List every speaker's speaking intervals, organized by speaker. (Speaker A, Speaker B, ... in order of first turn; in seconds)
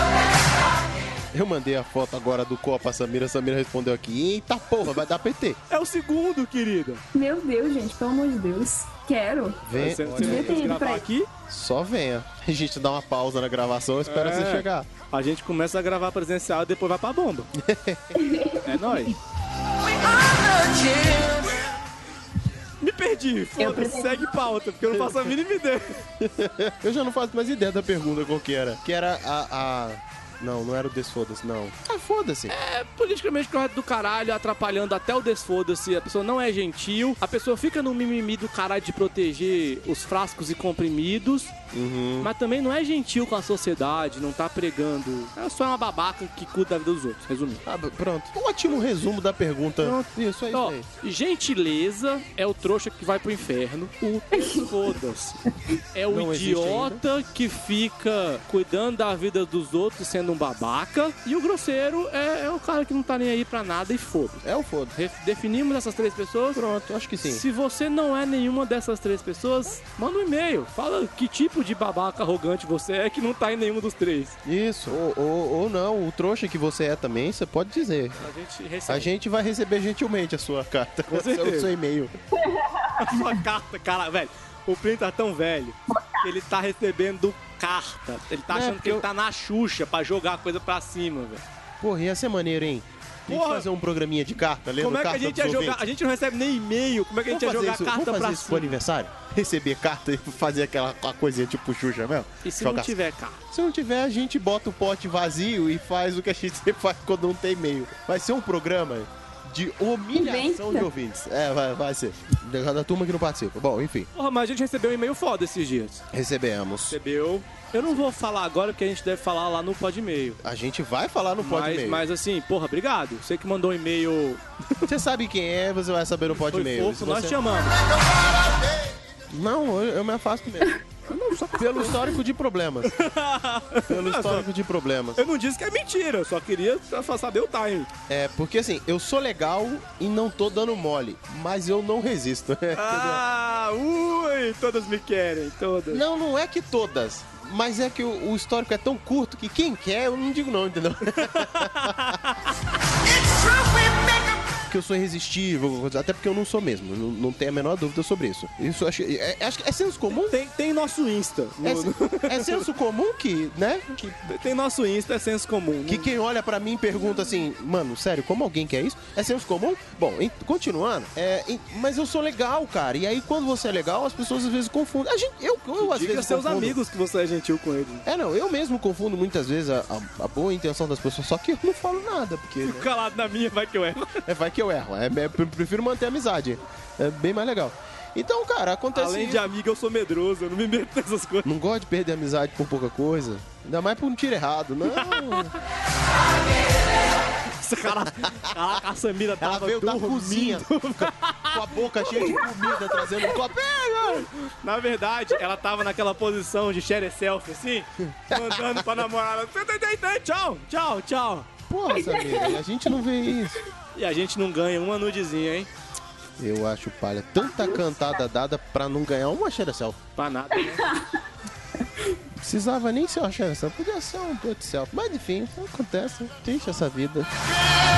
Speaker A: 1.3-5.6, 9.6-10.7, 11.5-14.9, 17.6-18.2, 24.9-25.3, 26.2-32.5, 41.7-42.3, 47.7-50.9, 56.1-57.0, 64.4-65.0, 66.5-67.4, 74.5-78.3, 78.9-82.1, 88.5-89.0, 91.8-95.8, 97.3-103.0, 103.5-114.1, 116.1-117.0, 120.4-122.0, 124.8-127.6, 129.3-130.8, 131.4-132.9, 133.9-135.2, 138.1-143.2, 145.9-152.1, 153.4-160.4, 161.6-164.4, 165.9-176.8, 178.1-182.9, 184.2-189.4, 191.4-195.5, 197.9-198.6, 199.4-204.3, 208.0-208.9, 211.7-213.6, 216.4-220.0, 222.4-227.3
Speaker B: 5.7-7.0, 9.8-11.3, 14.1-17.5, 18.6-19.2, 22.8-26.0, 32.5-41.5, 42.2-47.6, 49.8-55.4, 55.9-64.4, 65.0-66.6, 67.2-74.4, 78.2-79.1, 81.1-81.7, 83.0-91.4, 93.3-93.7, 94.8-98.8, 102.4-103.4, 114.1-116.0, 116.9-120.4, 121.4-124.9, 126.3-127.8, 131.1-132.0, 132.8-134.5, 135.2-137.9, 142.7-146.0, 151.1-152.6, 160.2-162.7, 164.3-166.1, 175.8-178.1, 182.6-184.3, 188.9-191.4, 194.9-195.5, 197.5-202.1, 204.0-211.5, 213.9-215.7, 220.2-220.9
Speaker C: 7.1-11.1, 18.2-19.1, 23.6-24.4, 54.3-54.7, 82.3-83.4, 85.9-86.2, 110.1-110.9, 211.9-212.6, 217.5-217.8, 220.6-221.2